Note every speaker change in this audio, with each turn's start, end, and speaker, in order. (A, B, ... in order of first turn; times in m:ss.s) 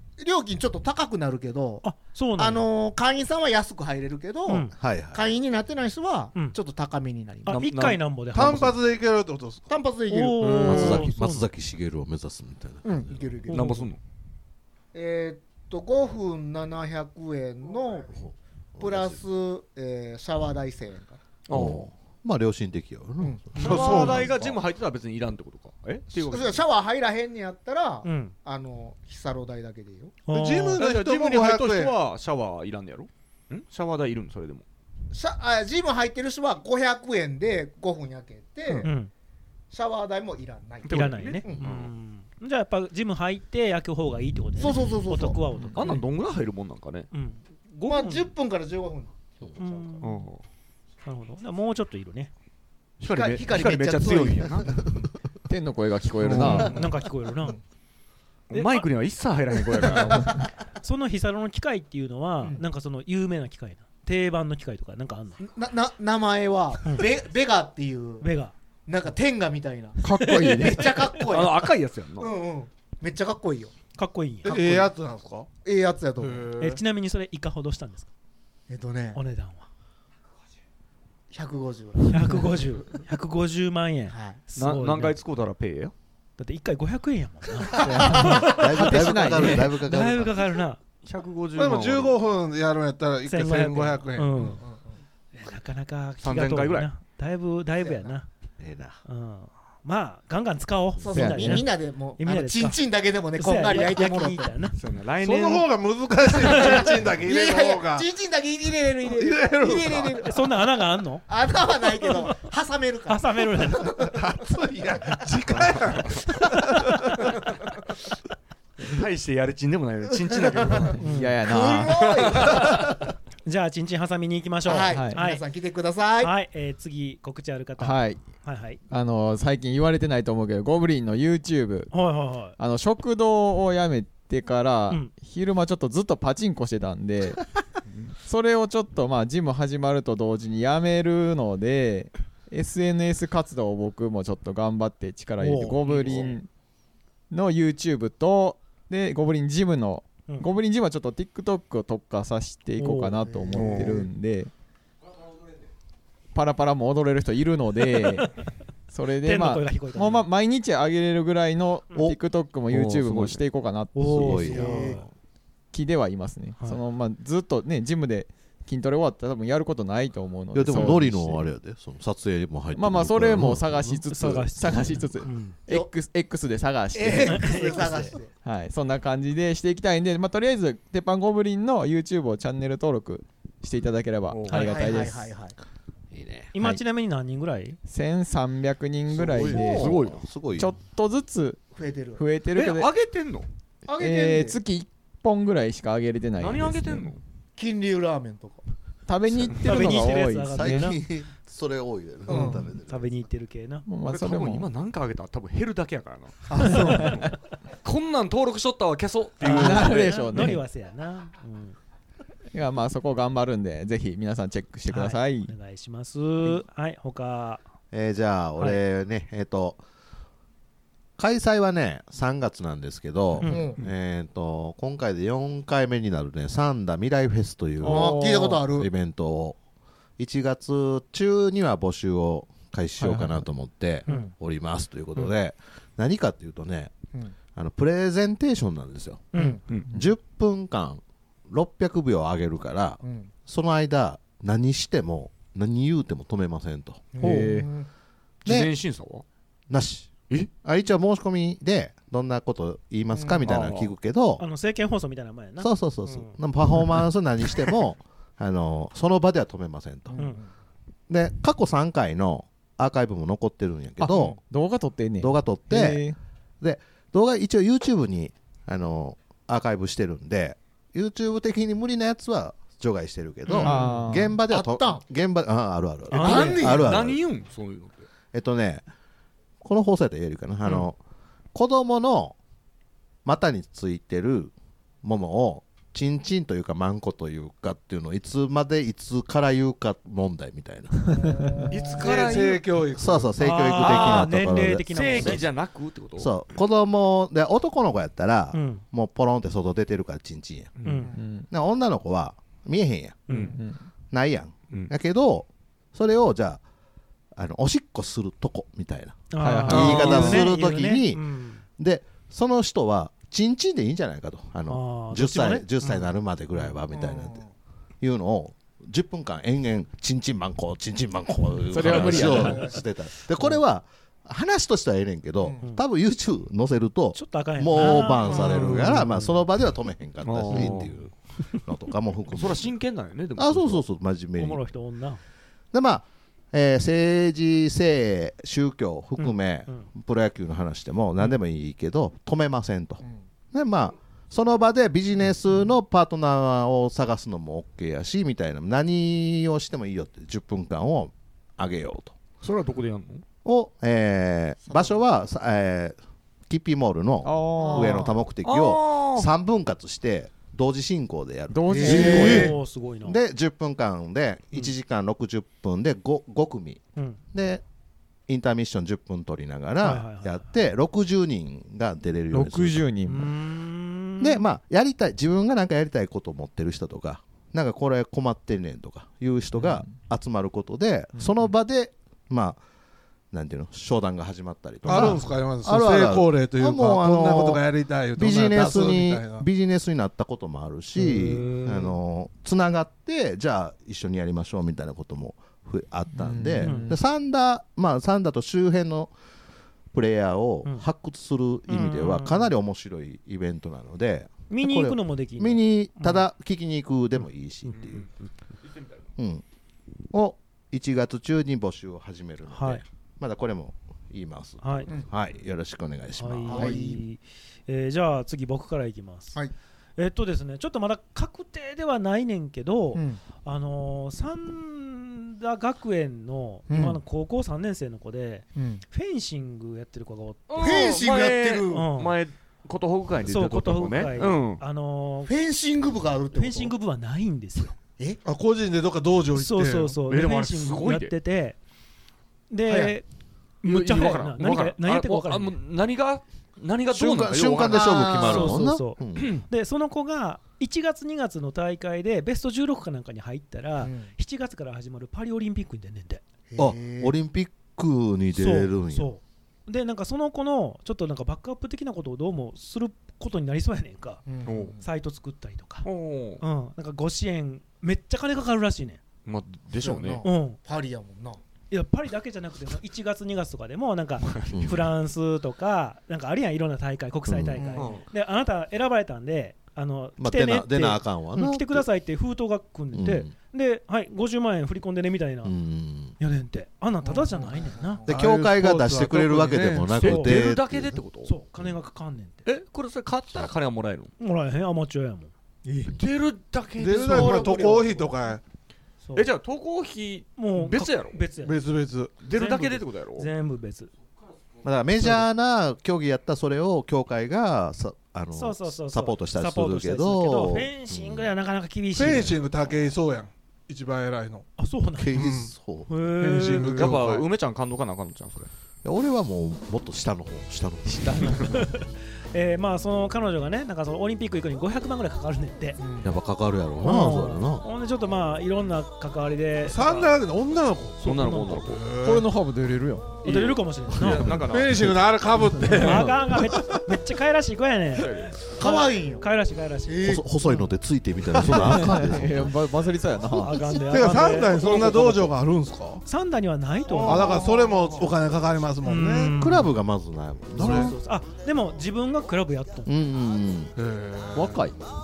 0:00.2-0:01.8 A
0:01.8-0:02.7 B
0:02.4-0:07.6 A
0:04.5-0:04.7 B
0:04.7-0:05.2 C
0:07.5-0:08.8 B
0:07.5-0:08.0 D
0:08.3-0:09.7 E
0:09.7-0:11.0 A
0:10.1-0:11.5 B
0:10.4-0:11.0 D
0:10.5-0:13.3 C
0:12.8-0:13.9 A
0:13.5-0:13.8 B
0:13.5-0:14.0 D
0:14.9-0:18.2 A
0:18.1-0:19.2 C
0:18.8-0:21.2 A
0:21.5-0:21.9 D
0:21.5-0:24.4 C
0:23.2-0:24.3 A
0:23.6-0:26.6 D
0:23.6-0:24.0 B
0:23.6-0:24.4 E
0:26.1-0:30.2 A
0:28.0-0:28.3 B
0:30.3-0:30.8 B
0:30.3-0:31.9 E
0:30.8-0:34.6 D
0:35.1-0:38.9 A
0:38.8-0:39.1 B
0:39.7-0:41.7 A
0:40.8-0:41.9 D
0:40.9-0:46.0 B
0:44.6-0:45.4 A
0:45.7-0:47.1 D
0:47.1-0:48.3 B
0:47.8-0:50.1 A
0:49.6-0:50.2 B
0:50.0-0:50.4 D
0:51.0-0:52.3 B
0:53.0-0:55.0 D
0:53.1-0:54.7 A
0:55.5-0:56.9 F
0:56.2-0:56.8 D
0:56.3-0:56.8 A
0:56.3-0:57.6 B
0:58.5-1:00.3 D
0:59.8-1:00.4 A
1:00.8-1:05.4 B
1:05.4-1:08.3 A
1:08.2-1:08.5 B
1:08.9-1:13.7 A
1:10.0-1:11.0 F
1:10.2-1:10.7 B
1:11.1-1:12.3 D
1:14.0-1:14.8 B
1:14.4-1:15.5 E
1:15.6-1:16.5 A
1:16.2-1:16.8 E
1:16.6-1:18.1 B
1:18.7-1:19.2 A
1:19.1-1:19.7 B
1:21.3-1:22.5 A
1:22.1-1:25.2 B
1:24.1-1:24.4 A
1:24.6-1:25.9 D
1:26.4-1:30.8 B
1:27.8-1:28.5 A
1:27.8-1:29.7 F
1:28.4-1:30.5 C
1:31.0-1:32.2 D
1:31.5-1:34.4 E
1:33.3-1:34.6 B
1:34.4-1:34.8 A
1:35.3-1:38.3 B
1:36.2-1:36.9 D
1:37.8-1:38.2 A
1:38.6-1:39.0 C
1:39.0-1:42.8 B
1:41.0-1:44.5 A
1:41.1-1:41.6 C
1:43.4-1:44.8 B
1:44.8-1:45.7 D
1:45.2-1:48.0 E
1:46.3-1:50.3 A
1:46.6-1:46.8 B
1:49.1-1:50.2 E
1:50.2-1:51.2 B
1:51.3-1:54.1 A
1:53.1-1:54.0 B
1:54.1-1:56.9 E
1:58.8-2:01.0 D
2:00.3-2:00.8 A
2:01.0-2:01.4 B
2:01.0-2:02.0 F
2:01.4-2:02.9 A
2:01.9-2:02.7 D
2:02.6-2:02.9 B
2:03.4-2:05.4 B
2:04.6-2:06.3 A
2:04.9-2:05.2 F
2:06.2-2:08.8 B
2:07.8-2:08.2 F
2:08.9-2:11.9 F
2:11.9-2:12.5 B
2:12.6-2:17.4 F
2:18.2-2:26.5 F
2:25.4-2:25.8 B
2:25.9-2:26.3 D
2:27.3-2:34.5 F
2:32.8-2:33.3 B
2:33.5-2:33.8 A
2:33.5-2:34.0 D
2:36.3-2:38.3 F
2:38.0-2:38.3 B
2:38.9-2:44.8 F
2:39.2-2:40.3 B
2:42.7-2:43.4 D
2:43.9-2:45.0 B
2:44.1-2:45.0 C
2:44.5-2:45.0 A
2:45.7-2:51.5 F
2:50.5-2:53.9 C
2:52.7-3:05.3 F
2:54.1-2:55.6 B
2:56.9-2:58.3 A
2:57.2-2:58.1 B
3:04.3-3:04.7 D
3:04.5-3:05.6 A
3:06.2-3:06.4 C
3:06.5-3:07.8 B
3:07.8-3:10.0 F
3:09.4-3:10.8 C
3:09.4-3:09.9 A
3:09.6-3:10.2 D
3:10.5-3:11.6 F
3:11.7-3:12.2 A
3:12.2-3:12.9 F
3:12.5-3:13.5 D
3:13.8-3:14.6 A
3:13.9-3:17.1 F
3:16.4-3:17.2 D
3:17.6-3:18.6 A
3:19.1-3:20.9 F
3:19.6-3:21.0 B
3:20.5-3:23.1 C
3:22.3-3:22.6 A
3:22.3-3:23.8 B
3:23.8-3:24.7 F
3:24.1-3:27.3 D
3:26.5-3:27.3 A
3:26.7-3:27.0 B
3:27.8-3:30.1 D
3:29.4-3:30.6 F
3:29.4-3:31.8 B
3:32.5-3:35.5 F
3:34.9-3:37.6 B
3:37.9-3:39.8 C
3:41.2-3:49.6 C
3:43.4-3:43.6 B
3:43.4-3:43.8 A
3:47.8-3:48.6 F
3:47.8-3:48.9 A
3:50.2-3:57.0 C
3:53.0-3:53.4 F
3:54.1-3:54.3 B
3:57.5-3:59.3 C
3:59.3-3:59.6 B
3:59.3-3:59.6 A
3:59.9-4:07.6 C
4:03.0-4:03.3 A
4:07.1-4:07.9 A
4:07.2-4:07.6 D
4:08.4-4:08.7 C
4:08.4-4:09.2 D
4:09.7-4:14.4 C
4:13.1-4:13.5 A
4:13.4-4:13.9 D
4:14.4-4:16.4 B
4:15.6-4:20.2 C
4:20.1-4:20.5 A
4:21.1-4:24.4 C
4:24.0-4:26.2 F
4:25.2-4:26.0 C
4:26.6-4:37.2 C
4:33.4-4:33.7 B
4:33.6-4:34.4 F
4:34.5-4:35.0 A
4:36.1-4:36.7 B
4:36.1-4:37.0 A
4:36.1-4:38.1 D
4:38.3-4:38.8 C
4:39.6-4:41.0 C
4:41.5-4:42.4 C
4:43.2-4:51.2 C
4:51.2-4:52.3 A
4:51.7-4:52.6 D
4:52.0-4:53.3 E
4:52.9-4:55.5 C
4:53.4-4:55.4 B
4:53.8-4:54.3 D
4:54.9-4:56.3 D
4:56.2-5:00.8 C
4:58.5-4:58.8 B
5:00.8-5:01.1 D
5:00.8-5:01.1 B
5:01.1-5:01.5 F
5:01.5-5:03.3 C
5:03.3-5:03.6 B
5:03.3-5:03.5 D
5:03.5-5:03.8 F
5:04.1-5:06.6 C
5:07.3-5:11.2 C
5:09.3-5:11.6 B
5:09.4-5:10.4 F
5:11.8-5:17.4 C
5:14.7-5:16.7 B
5:16.9-5:17.5 A
5:18.0-5:32.7 C
5:21.7-5:22.7 F
5:22.0-5:22.7 A
5:27.1-5:29.4 B
5:30.2-5:31.0 D
5:32.3-5:33.8 D
5:33.4-5:34.6 C
5:34.4-5:35.2 B
5:35.7-5:52.1 C
5:39.2-5:39.8 B
5:52.4-5:53.2 D
5:53.4-5:56.0 C
5:54.7-5:55.0 A
5:56.5-6:06.8 C
5:57.2-5:58.1 F
5:57.6-5:58.2 A
5:58.4-5:59.3 D
6:01.5-6:02.5 F
6:01.7-6:02.5 A
6:01.8-6:03.2 B
6:07.3-6:07.6 C
6:08.3-6:12.8 C
6:09.8-6:10.4 B
6:12.3-6:13.3 F
6:13.1-6:14.4 B
6:14.2-6:22.6 C
6:19.6-6:20.0 F
6:21.2-6:21.5 F
6:23.3-6:39.1 C
6:24.8-6:29.4 E
6:24.8-6:25.2 B
6:31.0-6:32.0 B
6:36.1-6:37.0 F
6:36.6-6:36.9 B
6:39.9-6:48.0 C
6:41.7-6:42.5 B
6:44.5-6:46.2 B
6:47.7-6:48.1 D
6:48.6-6:49.0 D
6:49.2-6:49.4 C
6:50.1-6:56.8 C
6:52.5-6:52.8 B
6:54.6-6:54.9 B
6:56.2-6:59.4 B
6:56.5-6:57.0 A
7:00.0-7:10.6 B
7:02.9-7:03.2 A
7:06.7-7:07.0 A
7:08.6-7:08.8 A
7:10.5-7:14.6 D
7:10.6-7:11.9 A
7:11.7-7:12.1 B
7:13.3-7:15.3 B
7:15.3-7:16.7 A
7:16.3-7:17.8 B
7:18.2-7:20.0 E
7:19.3-7:21.6 B
7:20.1-7:21.1 D
7:22.5-7:23.0 B
7:23.6-7:25.6 B
7:23.6-7:28.6 D
7:26.9-7:29.4 C
7:27.7-7:28.3 A
7:28.2-7:36.2 B
7:29.2-7:29.4 D
7:33.8-7:34.1 A
7:36.5-7:37.1 A
7:36.6-7:39.1 C
7:38.3-7:44.2 B
7:44.3-7:44.8 A
7:44.4-7:44.8 D
7:44.8-7:45.9 B
7:45.8-7:46.4 D
7:46.4-7:49.0 B
7:49.2-7:50.2 D
7:49.8-7:51.4 A
7:50.2-7:50.6 B
7:51.7-8:05.5 B
7:54.5-7:54.9 C
7:57.3-7:57.8 C
7:57.6-7:58.0 A
7:57.8-7:58.0 D
8:00.2-8:01.8 C
8:02.9-8:03.3 C
8:05.4-8:06.1 C
8:06.2-8:08.0 B
8:07.0-8:08.2 A
8:08.1-8:11.0 C
8:08.1-8:10.2 E
8:09.9-8:11.3 D
8:10.0-8:10.4 B
8:11.2-8:12.4 B
8:12.4-8:14.1 D
8:14.2-8:15.3 B
8:16.0-8:17.8 D
8:16.8-8:18.4 E
8:16.9-8:18.1 A
8:17.2-8:17.5 B
8:19.0-8:19.3 B
8:19.1-8:21.2 D
8:20.4-8:21.6 B
8:21.4-8:22.2 E
8:22.2-8:23.3 D
8:22.3-8:23.9 B
8:24.6-8:31.3 C
8:28.3-8:32.4 B
8:31.9-8:34.5 E
8:34.6-8:35.1 B
8:35.0-8:35.9 C
8:35.1-8:35.5 E
8:35.9-8:37.0 B
8:36.2-8:37.2 E
8:36.4-8:38.5 D
8:38.8-8:41.4 C
8:40.8-8:41.5 F
8:41.3-8:45.8 B
8:45.8-8:46.2 A
8:46.0-8:47.6 C
8:46.8-8:50.1 B
8:49.6-8:51.1 E
8:51.0-8:51.7 B
8:51.0-8:51.8 D
8:51.6-8:52.3 E
8:52.0-8:53.2 F
8:53.2-8:55.0 D
8:53.2-8:54.3 B
8:54.5-8:56.1 E
8:55.7-8:56.3 F
8:55.8-9:00.7 B
8:58.0-8:58.4 D
8:58.6-8:59.3 A
8:59.8-9:00.2 A
9:00.0-9:02.5 C
9:01.4-9:03.8 F
9:03.4-9:05.2 B
9:03.9-9:06.0 E
9:04.8-9:05.1 F
9:06.0-9:07.4 B
9:06.9-9:08.1 A
9:07.1-9:09.3 E
9:08.8-9:09.7 B
9:09.3-9:11.0 C
9:10.6-9:10.9 E
9:10.6-9:12.9 B
9:12.8-9:13.7 C
9:13.8-9:14.6 E
9:14.3-9:14.7 F